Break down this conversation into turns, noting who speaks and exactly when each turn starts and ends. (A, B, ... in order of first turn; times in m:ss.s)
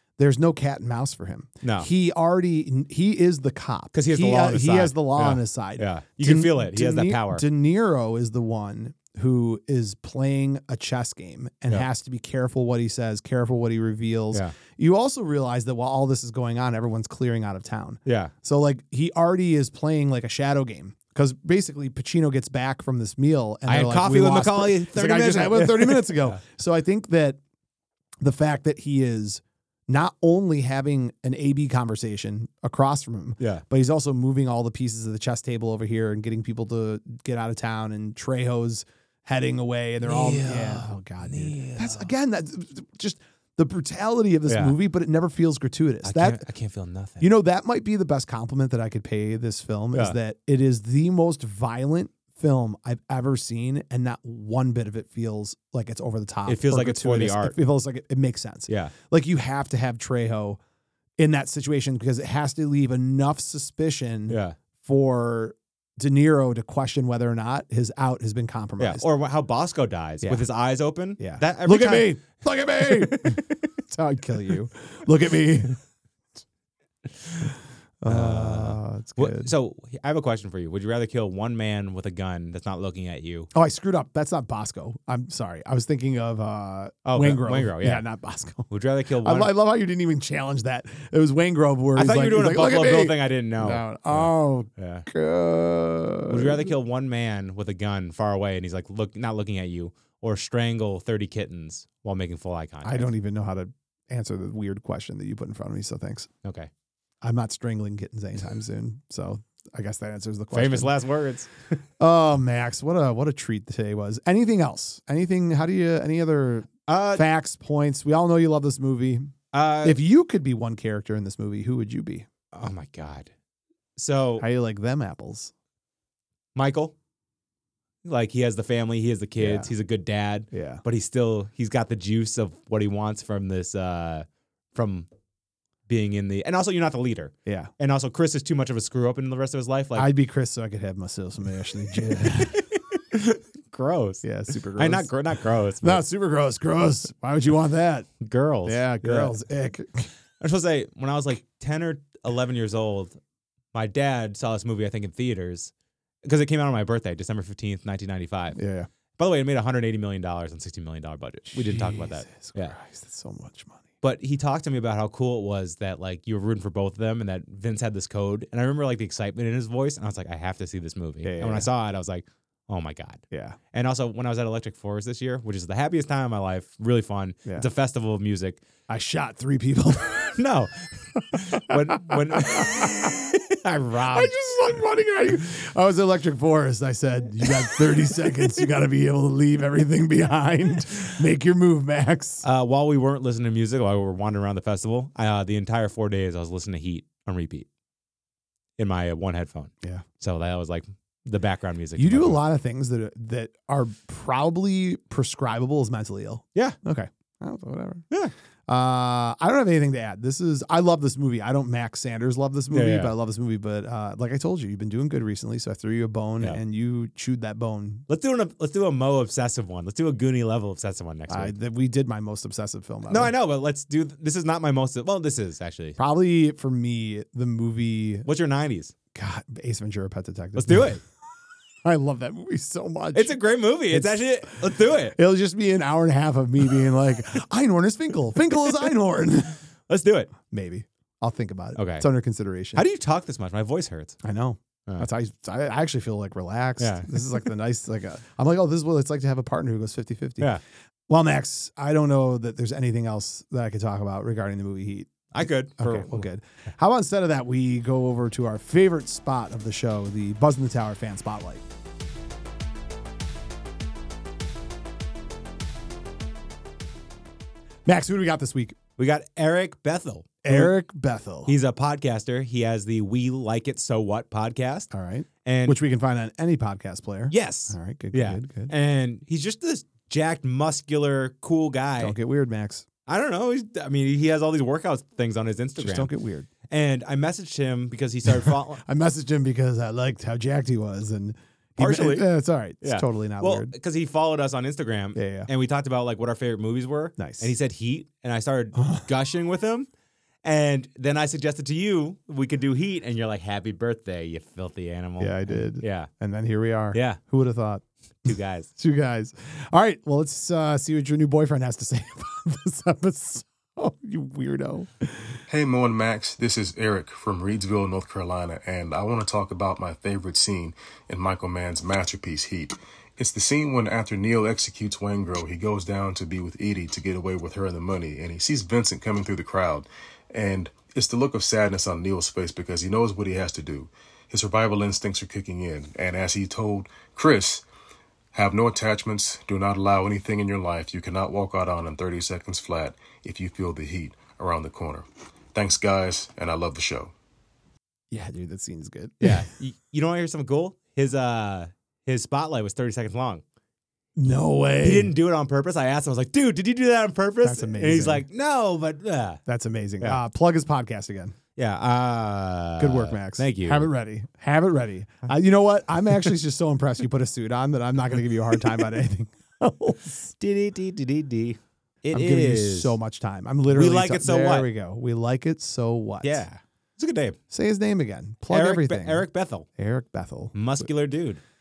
0:00.2-0:27.4 A
0:01.6-0:01.9 B
0:03.9-0:07.4 B
0:18.1-0:18.3 B
0:23.7-0:26.4 B
0:28.2-0:46.5 A
0:40.0-0:42.1 B
0:44.5-0:44.8 B
0:46.0-0:47.3 B
0:47.2-1:00.6 A
0:56.5-0:57.6 B
0:58.7-0:58.9 B
1:01.2-1:09.0 A
1:04.3-1:04.6 B
1:08.8-1:12.2 B
1:11.2-1:15.8 A
1:12.8-1:13.5 B
1:18.0-1:19.5 A
1:18.1-1:23.5 B
1:23.5-1:36.7 A
1:27.0-1:28.0 B
1:28.7-1:29.5 B
1:32.0-1:35.1 B
1:36.3-1:43.1 B
1:42.8-1:46.3 A
1:46.4-1:46.7 B
1:47.2-1:50.9 A
1:50.5-1:51.8 B
1:52.0-2:02.3 A
1:56.9-1:57.2 B
1:59.5-2:00.0 B
2:02.5-2:03.3 B
2:04.0-2:04.4 B
2:04.4-2:05.5 A
2:06.6-2:06.9 B
2:08.0-2:15.1 B
2:09.4-2:09.7 A
2:10.5-2:10.8 A
2:15.9-2:20.1 B
2:17.5-2:17.7 A
2:20.0-2:22.6 A
2:21.9-2:24.2 B
2:24.2-2:25.1 A
2:24.8-2:26.0 B
2:25.8-2:28.1 A
2:28.2-2:29.3 B
2:28.6-2:30.1 A
2:30.4-2:33.2 B
2:33.7-2:35.7 B
2:36.2-2:38.6 B
2:38.6-2:38.9 A
2:39.2-2:42.8 B
2:41.5-2:43.8 A
2:44.0-2:58.6 B
2:51.2-2:51.7 A
2:53.3-2:53.6 A
2:58.9-3:00.4 A
3:00.4-3:04.3 B
3:01.2-3:03.3 A
3:04.0-3:12.4 A
3:07.4-3:08.2 B
3:12.4-3:17.7 B
3:18.8-3:22.4 B
3:22.0-3:28.1 A
3:28.7-3:38.1 A
3:32.7-3:33.1 B
3:38.1-3:41.5 B
3:41.3-3:43.3 A
3:43.1-3:46.0 B
3:46.0-3:48.3 A
3:48.3-3:48.9 B
3:49.1-3:51.0 A
3:50.6-3:51.0 B
3:51.8-3:53.4 A
3:53.1-3:55.2 B
3:53.9-3:59.6 A
3:59.9-4:00.3 B
4:00.5-4:02.8 A
4:01.8-4:02.1 B
4:02.8-4:04.2 B
4:04.2-4:21.6 A
4:06.8-4:07.4 B
4:15.3-4:16.3 B
4:27.9-4:28.8 A
4:29.0-4:30.8 B
4:30.4-4:31.6 A
4:31.5-4:34.9 B
4:34.9-4:38.7 A
4:35.4-4:35.8 B
4:37.3-4:42.2 B
4:42.0-4:42.9 A
4:43.1-4:46.1 B
4:45.8-4:46.5 A
4:46.7-4:48.8 B
4:48.3-4:53.7 A
4:51.8-4:52.3 B
4:52.8-4:59.9 B
4:55.2-4:55.5 A
4:57.2-4:57.5 A
4:58.8-4:59.0 A
5:00.4-5:06.1 B
5:05.2-5:07.8 A
5:06.9-5:07.2 B
5:08.2-5:08.7 B
5:08.8-5:15.4 A
5:15.5-5:37.6 C
5:38.3-5:47.1 C
5:48.1-5:49.5 A
5:49.2-5:53.4 B
5:54.2-5:55.1 A
5:54.8-5:59.4 B
5:57.4-5:58.3 A
5:59.5-6:01.4 A
6:01.6-6:03.9 B
6:02.8-6:10.3 A
6:10.4-6:13.0 B
6:12.1-6:16.4 A
6:13.7-6:14.7 B
6:16.2-6:17.4 B
6:17.5-6:20.6 A
6:18.5-6:19.7 B
6:20.5-6:21.4 B